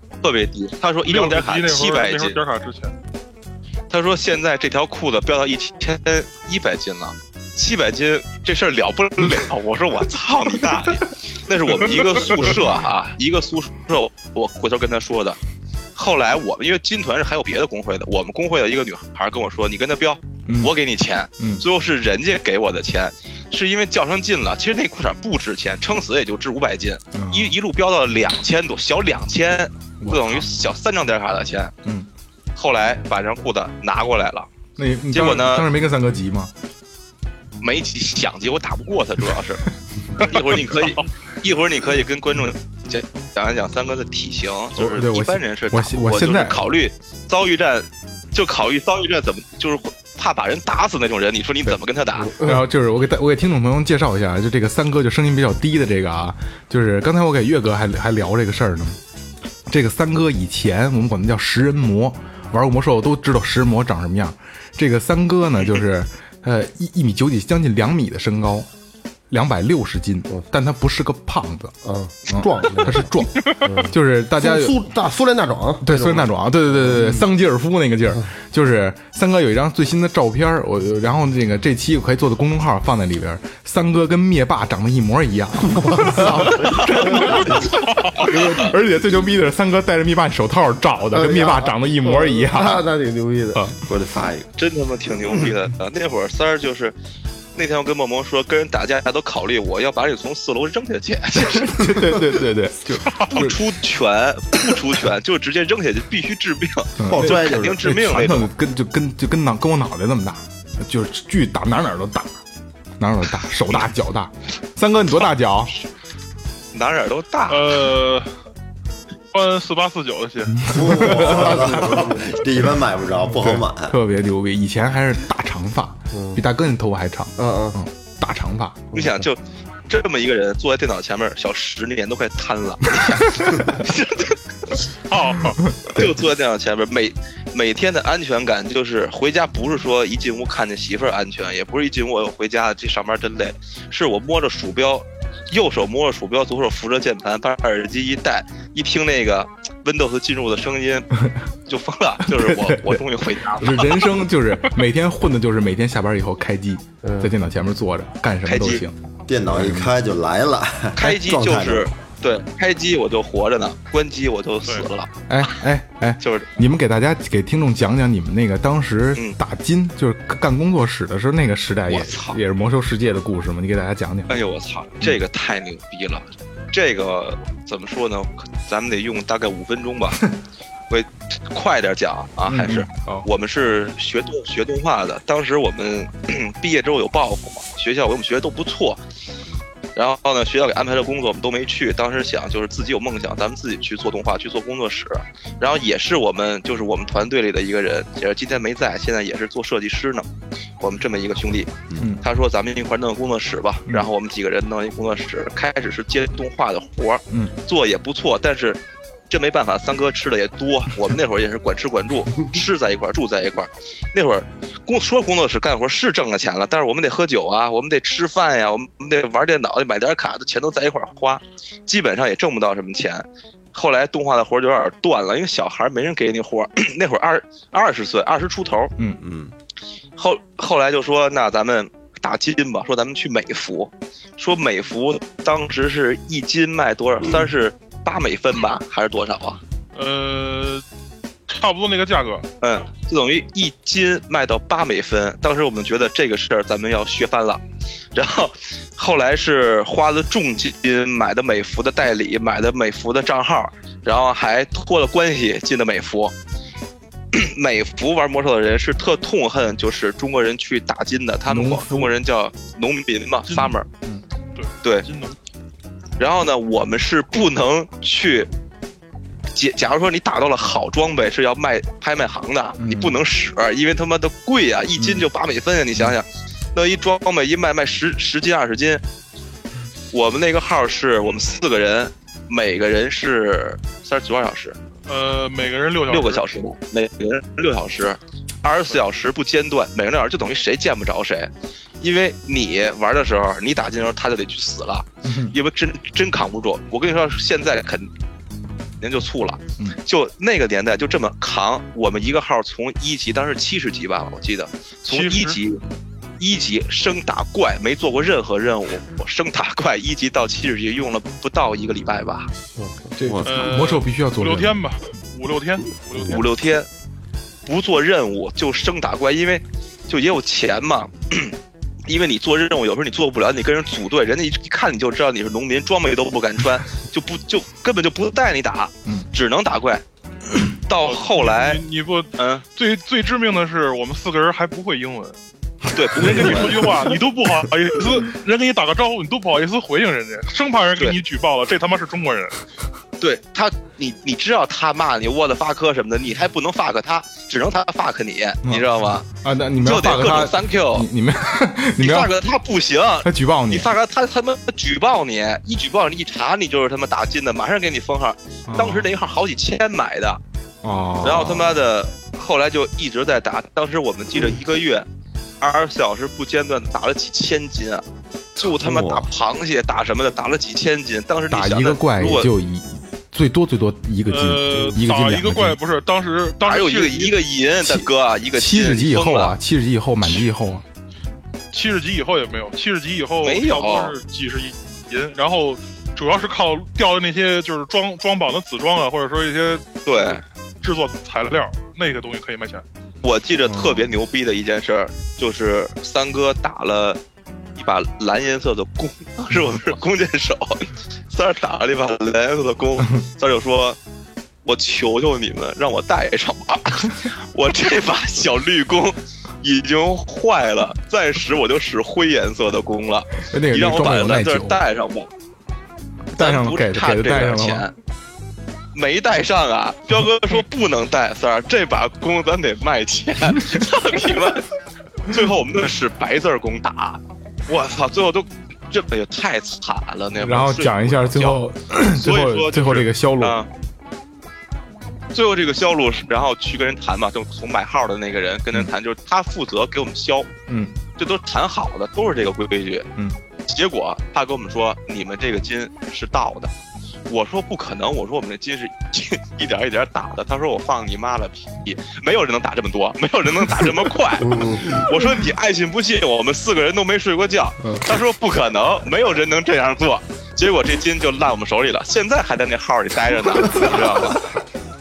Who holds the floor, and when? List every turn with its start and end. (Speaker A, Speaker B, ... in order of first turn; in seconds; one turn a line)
Speaker A: 0.2-2.4
Speaker B: 1.1-2.9
Speaker A: 3.9-15.4
Speaker A: 15.9-31.7
Speaker C: 20.5-20.7
Speaker C: 21.4-21.6
Speaker C: 27.1-27.6
Speaker C: 30.0-30.5
Speaker A: 32.6-34.5
Speaker C: 34.8-36.5
Speaker A: 35.1-35.7
Speaker A: 37.6-52.3
Speaker C: 44.8-46.6
Speaker D: 52.2-52.6
Speaker C: 52.4-59.0
Speaker C: 59.7-68.7
Speaker C: 69.3-71.7
Speaker D: 71.8-77.3
Speaker C: 72.3-74.8
Speaker C: 75.8-92.8
Speaker D: 85.9-87.6
Speaker A: 86.7-87.6
Speaker D: 91.1-93.7
Speaker E: 93.8-94.5
Speaker A: 94.6-97.0
Speaker A: 97.5-102.0
Speaker C: 101.3-103.6
Speaker A: 103.3-108.5
Speaker C: 107.0-112.4
Speaker D: 107.0-107.8
Speaker C: 113.0-115.8
Speaker A: 116.7-117.8
Speaker B: 117.5-118.3
Speaker B: 119.3-120.7
Speaker C: 120.6-121.7
Speaker E: 120.7-124.0
Speaker D: 121.0-122.3
Speaker C: 123.4-128.9
Speaker D: 126.1-126.4
Speaker D: 127.4-127.8
Speaker D: 128.9-129.2
Speaker A: 128.9-134.8
Speaker B: 135.1-135.6
Speaker A: 135.9-151.1
Speaker A: 151.7-154.1
Speaker C: 152.3-159.9
Speaker D: 157.0-157.3
Speaker A: 158.4-158.8
Speaker E: 159.3-161.9
Speaker A: 161.0-165.1
Speaker C: 165.3-174.3
Speaker A: 166.2-166.5
Speaker A: 171.9-172.4
Speaker A: 174.3-180.2
Speaker A: 180.9-189.0
Speaker C: 182.5-183.3
Speaker A: 190.0-200.3
Speaker A: 200.8-228.9
Speaker C: 202.0-202.2
Speaker E: 229.2-229.5
Speaker A: 230.2-239.6
Speaker B: 239.9-240.8
Speaker B: 241.5-242.5
Speaker A: 242.6-247.6
Speaker A: 248.2-256.3
Speaker A: 257.3-263.9
Speaker C: 261.5-262.1
Speaker C: 263.6-264.2
Speaker B: 264.6-265.4
Speaker A: 266.2-268.5
Speaker A: 269.5-279.0
Speaker C: 272.8-273.2
Speaker C: 275.0-275.3
Speaker A: 280.1-284.8
Speaker B: 285.1-286.4
Speaker A: 286.1-298.1
Speaker C: 295.2-295.6
Speaker A: 299.0-305.8
Speaker B: 305.1-305.6
Speaker A: 306.4-312.5
Speaker D: 312.8-313.1
Speaker C: 313.2-314.8
Speaker E: 313.2-313.5
Speaker B: 313.4-316.4
Speaker A: 316.2-316.9
Speaker A: 317.7-321.6
Speaker A: 322.1-330.0
Speaker A: 330.6-331.8
Speaker B: 331.0-335.4
Speaker A: 332.4-332.6
Speaker A: 335.9-337.0
Speaker B: 336.2-342.6
Speaker A: 343.2-349.3
Speaker C: 348.6-352.3
Speaker A: 349.8-351.1
Speaker A: 352.0-360.4
Speaker C: 353.2-353.9
Speaker C: 358.7-359.1
Speaker C: 360.8-361.8
Speaker A: 361.2-365.1
Speaker A: 365.6-368.1
Speaker A: 368.6-372.5
Speaker E: 368.7-369.3
Speaker C: 371.5-375.8
Speaker B: 374.3-377.4
Speaker A: 376.6-379.6
Speaker C: 377.8-380.8
Speaker B: 381.7-392.8
Speaker A: 383.4-384.1
Speaker A: 390.1-390.4
Speaker A: 393.2-397.2
Speaker C: 393.7-394.1
Speaker A: 397.8-404.0
Speaker A: 404.6-415.3
Speaker C: 413.5-414.8
Speaker C: 416.3-417.9
Speaker A: 416.4-417.9
Speaker A: 418.9-424.7
Speaker A: 425.3-433.7
Speaker C: 430.4-433.6
Speaker A: 435.3-440.5
Speaker C: 440.7-441.0
Speaker A: 441.2-443.1
Speaker A: 443.7-446.7
Speaker A: 447.3-464.5
Speaker D: 454.4-455.0